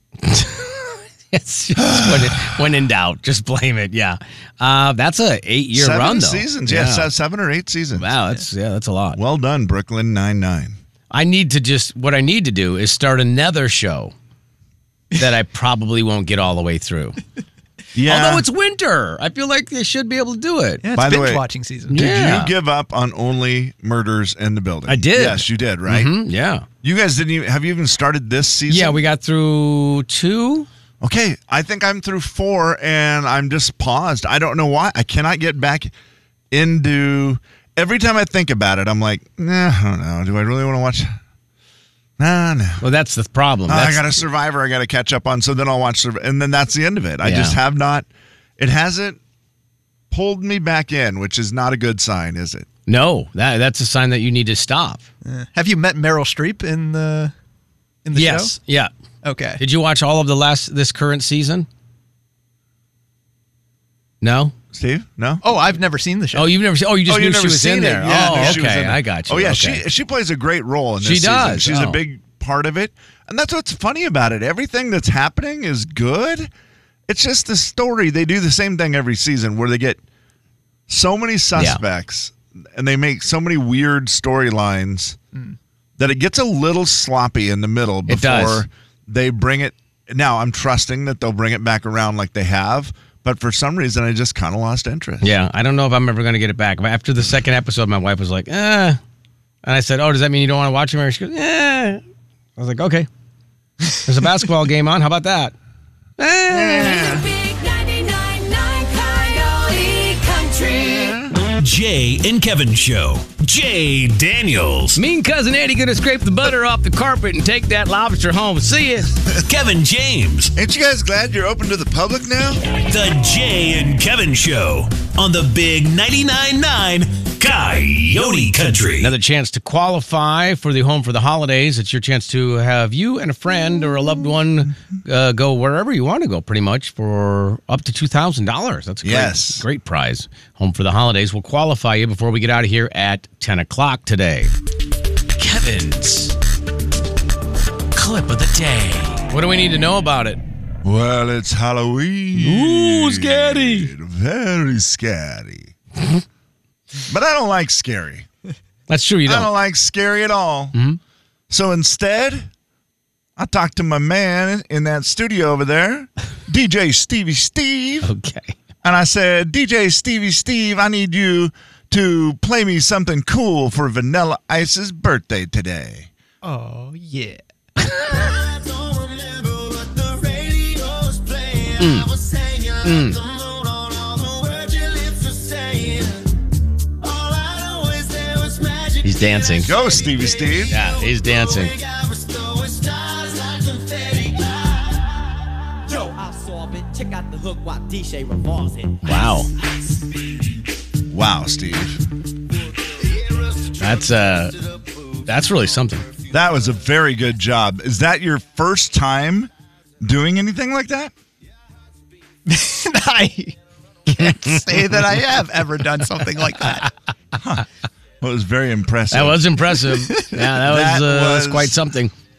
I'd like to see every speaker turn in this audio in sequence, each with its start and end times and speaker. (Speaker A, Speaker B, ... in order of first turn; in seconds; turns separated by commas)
Speaker A: 0.2-7.1, Speaker B: 1.8-2.6, Speaker B: 5.7-8.1, Speaker A: 8.0-9.2, Speaker B: 9.2-10.8, Speaker A: 11.1-14.1, Speaker A: 15.2-17.2, Speaker B: 17.9-18.4, Speaker A: 18.0-20.8, Speaker C: 20.8-22.0, Speaker B: 20.9-26.1, Speaker A: 21.9-22.5, Speaker A: 24.9-26.6, Speaker B: 26.8-29.0, Speaker A: 28.7-30.7, Speaker B: 31.0-35.9, Speaker B: 36.5-41.1, Speaker B: 42.2-42.8, Speaker A: 42.8-44.2, Speaker B: 43.7-48.1, Speaker A: 47.2-47.6, Speaker B: 48.6-49.2, Speaker B: 50.1-52.7, Speaker A: 52.9-55.0, Speaker C: 55.2-57.3, Speaker C: 58.0-58.5, Speaker A: 58.1-58.9, Speaker C: 59.2-59.6, Speaker A: 59.6-61.7, Speaker A: 64.2-64.5, Speaker B: 64.7-65.4, Speaker C: 65.4-66.5, Speaker A: 66.3-69.8, Speaker B: 67.0-76.5, Speaker C: 68.0-68.6, Speaker A: 71.0-72.0, Speaker B: 77.1-80.0, Speaker B: 80.9-85.2, Speaker A: 81.5-81.8, Speaker B: 86.0-95.3, Speaker A: 88.1-88.6, Speaker A: 95.2-99.0, Speaker A: 99.6-102.0, Speaker A: 102.6-103.1, Speaker A: 104.0-105.5, Speaker A: 106.2-107.1, Speaker B: 106.5-107.2, Speaker D: 106.6-111.2, Speaker B: 111.0-111.3, Speaker E: 111.4-115.0, Speaker A: 115.0-119.2, Speaker E: 119.3-120.5, Speaker B: 120.5-122.6, Speaker E: 122.8-129.1, Speaker A: 129.0-144.5, Speaker B: 139.0-139.6, Speaker A: 145.4-146.3, Speaker A: 147.9-150.4, Speaker B: 150.8-155.7, Speaker A: 152.3-153.9, Speaker B: 157.1-158.3, Speaker A: 158.9-159.5, Speaker B: 159.2-160.8, Speaker A: 160.7-161.0, Speaker B: 161.5-162.5, Speaker B: 163.4-168.1, Speaker A: 168.0-168.6, Speaker B: 168.8-176.1, Speaker C: 176.4-177.4, Speaker F: 177.8-186.3, Speaker A: 181.8-182.1, Speaker A: 182.8-183.2, Speaker F: 187.0-195.1, Speaker A: 189.0-189.7, Speaker B: 189.6-190.7, Speaker A: 190.7-191.8, Speaker F: 195.8-199.4, Speaker A: 199.0-199.5, Speaker B: 201.1-202.0, Speaker F: 203.0-205.3, Speaker A: 203.8-204.6, Speaker A: 205.3-206.1, Speaker B: 206.3-209.5, Speaker B: 210.0-211.1, Speaker C: 212.4-213.6, Speaker C: 214.1-216.9, Speaker A: 214.1-215.0, Speaker B: 217.4-217.7, Speaker B: 218.2-219.5, Speaker A: 219.1-222.1, Speaker C: 219.9-220.4, Speaker B: 220.5-221.8